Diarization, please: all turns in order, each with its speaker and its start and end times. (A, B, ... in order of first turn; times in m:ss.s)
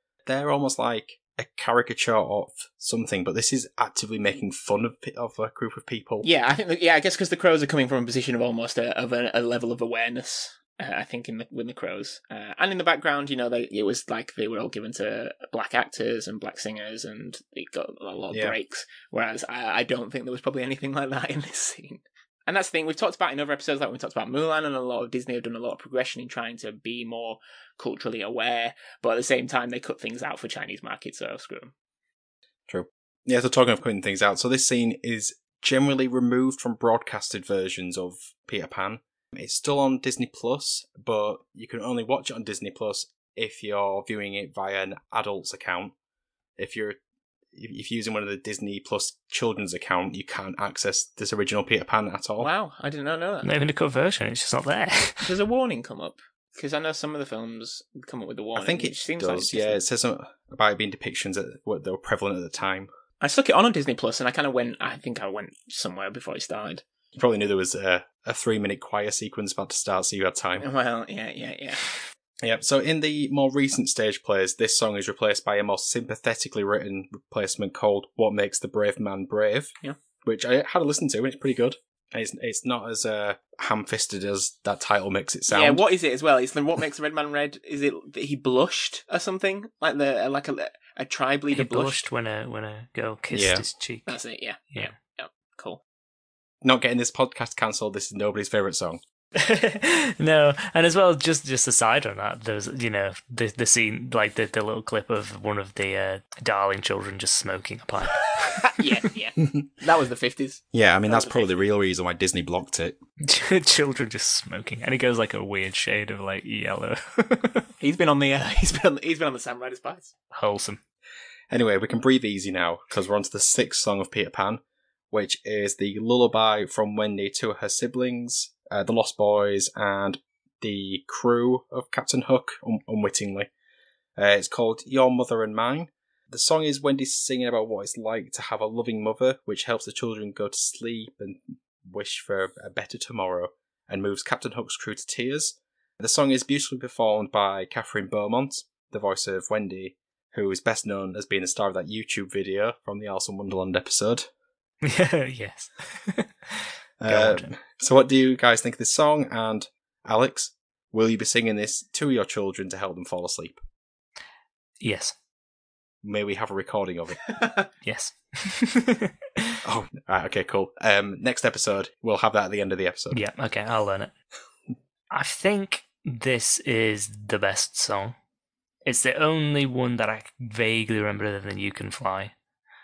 0:00.2-0:06.3 A
0:06.2-0:31.7 B
0:18.3-0:18.6 A
0:32.7-0:45.9 A
0:46.6-0:47.0 A
0:47.5-0:52.5 A
0:52.4-0:53.5 B
0:53.4-0:55.3 C
0:55.2-0:59.8 B
0:58.6-1:02.9 A
1:03.2-1:06.8 B
1:07.1-1:10.7 A
1:10.6-1:11.9 B
1:12.4-1:19.7 A
1:20.2-1:25.8 A
1:25.5-1:32.0 B
1:31.5-1:34.2 C
1:33.3-1:33.6 A
1:34.1-1:35.8 B
1:36.6-1:39.0 A
1:39.4-1:48.8 C
1:48.6-1:51.5 B
1:50.7-1:53.0 A
1:53.2-1:57.7 C
1:57.8-2:00.1 B
2:00.3-2:00.8 C
2:01.5-2:13.5 A
2:14.2-2:34.3 A
2:34.8-2:37.5 C
2:37.0-2:43.6 A
2:44.8-2:45.1 C
2:46.0-2:47.4 A
2:47.8-2:49.6 C
2:49.6-2:53.2 A
2:53.1-2:54.1 C
2:55.1-2:58.1 C
2:58.8-3:02.3 C